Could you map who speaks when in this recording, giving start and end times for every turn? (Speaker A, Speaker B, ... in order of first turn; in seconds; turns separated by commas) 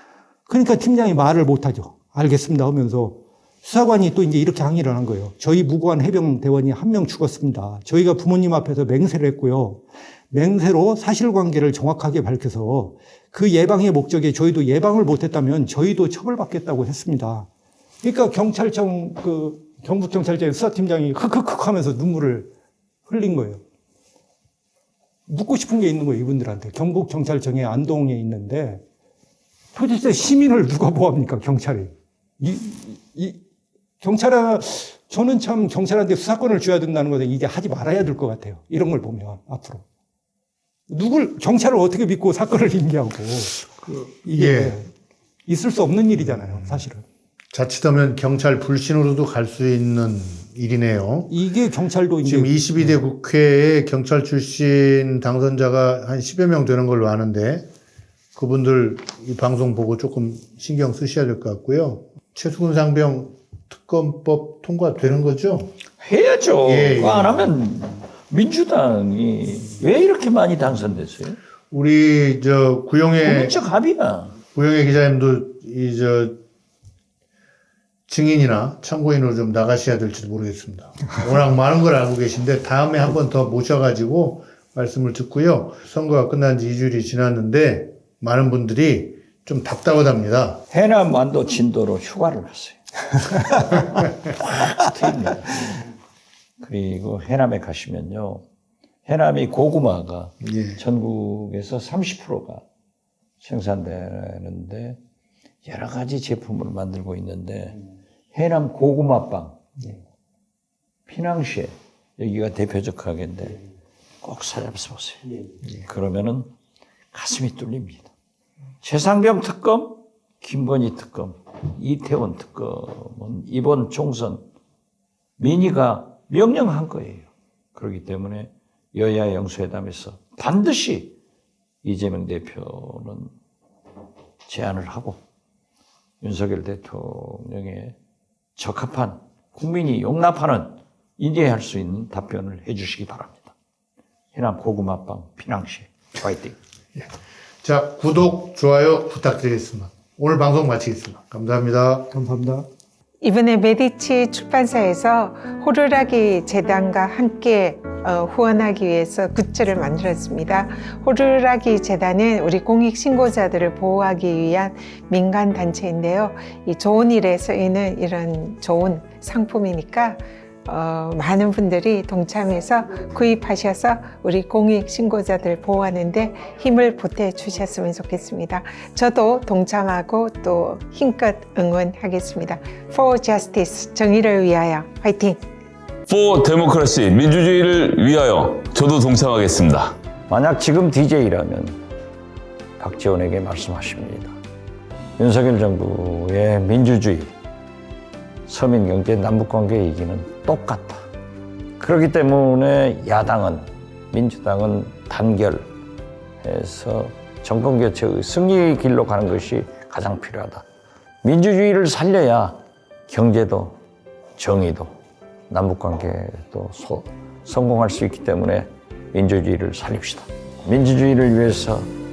Speaker A: 0.5-17.5, Speaker A: 18.0-22.5, Speaker A: 23.1-23.6, Speaker A: 25.3-28.8, Speaker A: 29.7-33.4, Speaker A: 34.0-39.8, Speaker A: 40.9-43.7, Speaker B: 43.8-44.8, Speaker A: 44.2-44.9, Speaker A: 45.5-47.0, Speaker B: 47.5-51.3, Speaker A: 51.3-53.0, Speaker B: 52.2-57.7, Speaker B: 58.3-65.7, Speaker C: 66.0-71.4, Speaker B: 66.6-67.5, Speaker B: 71.7-73.5, Speaker C: 73.2-74.3, Speaker B: 74.5-76.4, Speaker B: 78.1-90.6, Speaker C: 90.7-95.8, Speaker C: 96.6-98.4, Speaker C: 99.0-102.6, Speaker B: 100.4-100.8, Speaker C: 103.4-105.0, Speaker C: 105.6-107.8, Speaker C: 108.3-109.6, Speaker C: 111.1-113.6, Speaker C: 114.2-116.5, Speaker C: 117.1-118.1, Speaker C: 118.8-124.4, Speaker C: 125.4-131.2, Speaker C: 131.8-133.3, Speaker C: 134.5-135.2, Speaker C: 136.2-137.9, Speaker C: 138.6-143.5, Speaker C: 144.3-146.6, Speaker B: 147.6-152.1, Speaker A: 152.1-152.7, Speaker D: 153.2-185.4, Speaker E: 186.1-189.9, Speaker C: 190.3-191.8, Speaker C: 192.8-194.3, Speaker C: 195.2-197.3, Speaker C: 198.5-201.1, Speaker C: 201.8-205.7, Speaker C: 206.4-210.6, Speaker C: 211.2-213.8, Speaker C: 214.4-214.9, Speaker C: 215.5-221.9